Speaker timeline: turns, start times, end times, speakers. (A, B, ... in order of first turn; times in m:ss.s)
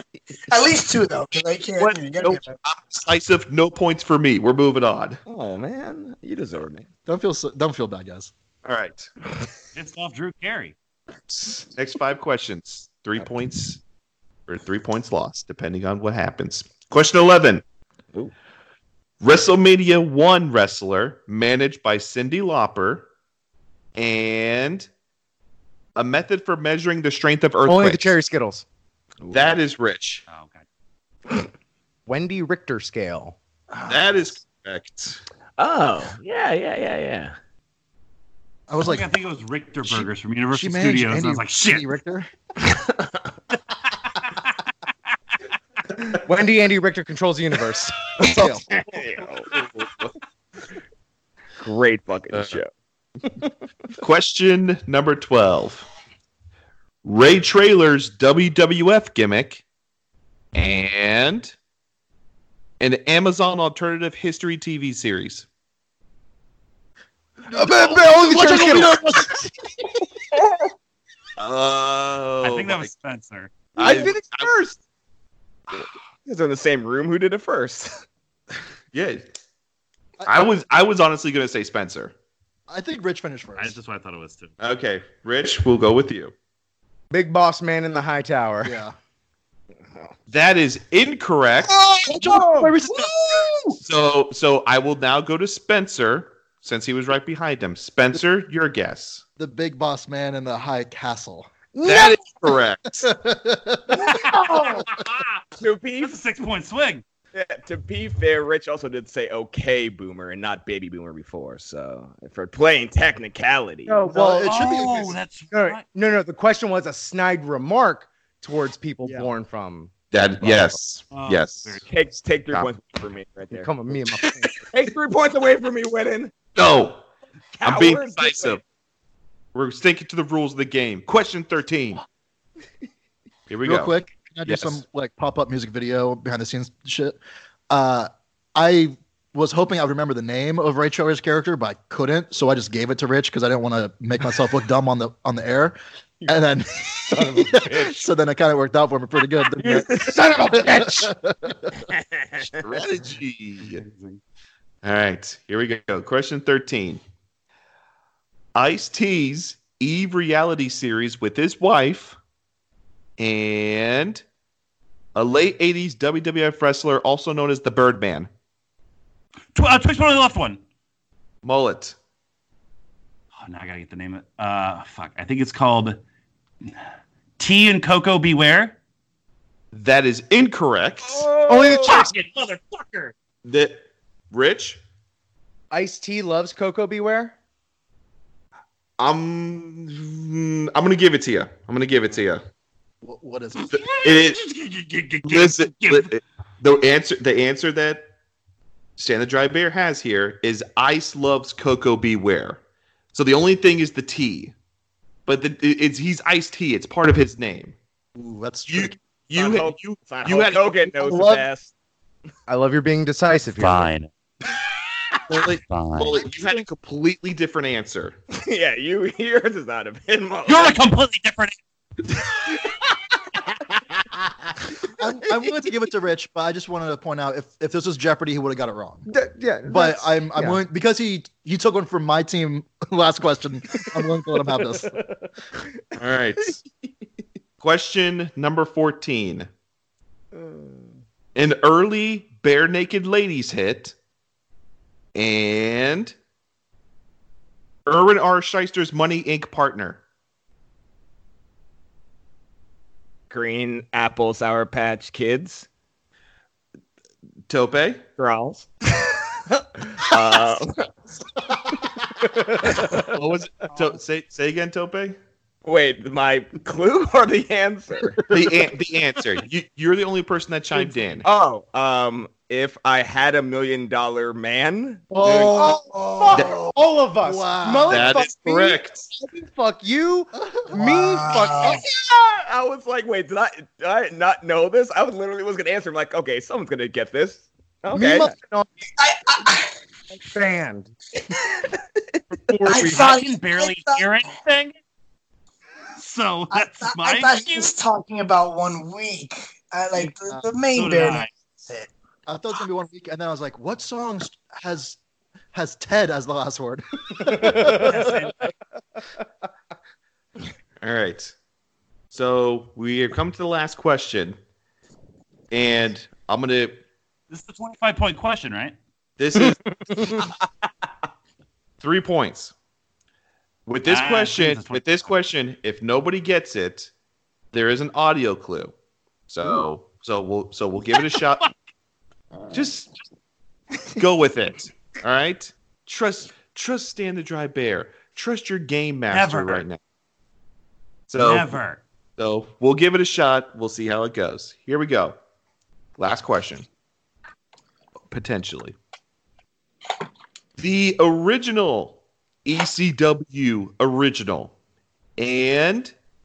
0:00.5-0:02.6 A
0:01.8-0:05.2 B
0:05.2-0:06.9 C
0:07.0-0:08.3 D
0:08.6-0:09.1 B
0:09.7-0:10.7 E
0:11.3-0:13.8 B
0:14.5-0:17.6 B
0:19.2-0:23.1 B
0:24.0-0:24.9 B
0:26.0-0:28.1 B
0:27.6-0:28.6 F
0:29.2-0:29.6 C
0:29.3-0:30.2 B
0:30.3-0:30.6 E
0:32.1-0:33.4 F
0:33.9-0:35.2 B
0:35.6-0:37.3 C
0:38.7-0:39.1 D
0:38.8-0:42.0 E
0:39.8-0:42.3 D
0:44.1-0:44.5 E
0:46.2-0:48.5 F
0:48.2-0:48.6 D
0:48.3-0:50.0 C
0:49.6-0:50.0 B
0:51.6-0:52.7 C
0:54.0-0:55.9 B
0:57.0-0:59.6 B
1:00.5-1:01.5 B
1:02.8-1:05.5 B
1:07.4-1:09.4 D
1:07.5-1:09.5 F
1:11.4-1:12.9 B
1:12.4-1:13.7 E
1:13.7-1:14.6 B
1:13.8-1:14.6 F
1:13.8-1:14.1 C
1:16.2-1:18.0 C
1:18.9-1:19.2 B
1:20.2-1:22.1 B
1:22.7-1:23.8 D
1:23.6-1:24.5 E
1:24.6-1:26.3 B
1:27.1-1:28.8 F
1:28.6-1:28.9 D
1:30.3-1:31.7 B
1:31.8-1:33.6 D
1:32.1-1:32.7 F
1:33.8-1:39.2 B
1:39.4-1:41.5 D
1:41.7-1:42.2 F
1:41.8-1:43.1 B
1:43.0-1:44.1 D
1:43.9-1:45.4 E
1:45.6-1:46.2 C
1:46.0-1:47.0 E
1:47.3-1:54.0 C
1:53.8-1:54.6 F
1:54.0-1:55.2 D
1:54.4-1:55.8 E
1:55.5-2:00.8 F
2:00.1-2:01.8 B
2:01.1-2:01.8 E
2:01.8-2:03.7 C
2:03.5-2:04.5 F
2:04.7-2:06.3 C
2:06.5-2:07.0 B
2:07.6-2:08.6 C
2:07.6-2:08.6 B
2:09.5-2:12.0 B
2:13.5-2:14.8 B
2:13.6-2:31.8 D
2:27.6-2:27.9 C
2:29.6-2:31.1 F
2:31.9-2:32.6 C
2:32.4-2:33.8 B
2:33.6-2:34.2 E
2:34.8-2:37.0 B
2:38.5-2:42.2 B
2:43.2-2:44.2 B
2:45.1-2:48.3 B
2:49.5-2:50.6 E
2:51.4-2:52.0 B
2:53.4-2:56.0 E
2:57.4-2:58.8 E
2:59.7-3:01.3 B
3:01.0-3:02.1 C
3:01.5-3:02.1 F
3:01.8-3:03.1 E
3:03.4-3:04.8 B
3:05.7-3:07.3 F
3:09.0-3:12.4 B
3:13.0-3:13.8 D
3:13.7-3:16.1 E
3:14.0-3:14.4 B
3:15.2-3:18.1 B
3:19.0-3:22.6 B
3:23.1-3:24.5 B
3:25.2-3:27.8 B
3:28.2-3:29.0 D
3:28.7-3:30.9 B
3:29.3-3:31.7 C
3:32.5-3:33.9 F
3:33.4-3:34.1 E
3:35.3-3:38.2 B
3:35.6-3:36.2 E
3:36.2-3:36.6 D
3:38.3-3:40.8 C
3:40.4-3:41.6 E
3:45.0-3:49.1 D
3:49.1-3:50.6 F
3:49.7-3:54.9 D
3:56.0-3:56.6 B
3:57.6-3:59.5 B
4:00.3-4:01.0 C
4:01.3-4:03.9 B
4:05.1-4:06.1 B
4:07.8-4:10.0 B
4:13.3-4:15.7 C
4:17.5-4:18.0 B
4:18.2-4:19.1 C
4:19.8-4:20.9 C
4:22.6-4:23.1 C
4:23.0-4:25.2 B
4:25.6-4:28.2 C
4:28.3-4:28.6 D
4:28.3-4:31.2 B
4:31.2-4:35.7 C
4:35.1-4:38.2 D
4:35.5-4:41.8 F
4:37.9-4:39.1 B
4:40.3-4:41.2 D
4:40.8-4:41.8 A
4:41.7-4:48.3 C
4:47.9-4:48.7 F
4:49.0-4:49.7 A
4:50.1-4:50.9 F
4:52.5-4:53.0 B
4:52.6-4:54.0 A
4:52.8-4:54.7 E
4:56.0-4:57.7 E
4:56.5-5:01.9 A
5:00.7-5:01.3 E
5:02.3-5:05.0 D
5:05.5-5:08.3 D
5:07.3-5:07.8 F
5:07.7-5:08.4 E
5:10.8-5:11.3 B
5:12.1-5:14.4 B
5:15.5-5:16.8 B
5:17.3-5:18.8 E
5:19.2-5:20.2 B
5:21.8-5:22.5 B
5:23.6-5:26.9 B
5:23.8-5:25.1 E
5:27.5-5:28.7 B
5:29.3-5:31.5 B
5:30.9-5:31.5 E
5:32.5-5:32.9 B
5:33.9-5:39.8 B
5:39.1-5:39.6 E
5:41.1-5:41.6 B
5:41.2-5:41.8 E
5:42.2-5:45.2 B
5:46.0-5:46.7 B
5:48.1-5:48.7 B
5:50.6-5:54.5 B
5:55.2-5:55.9 B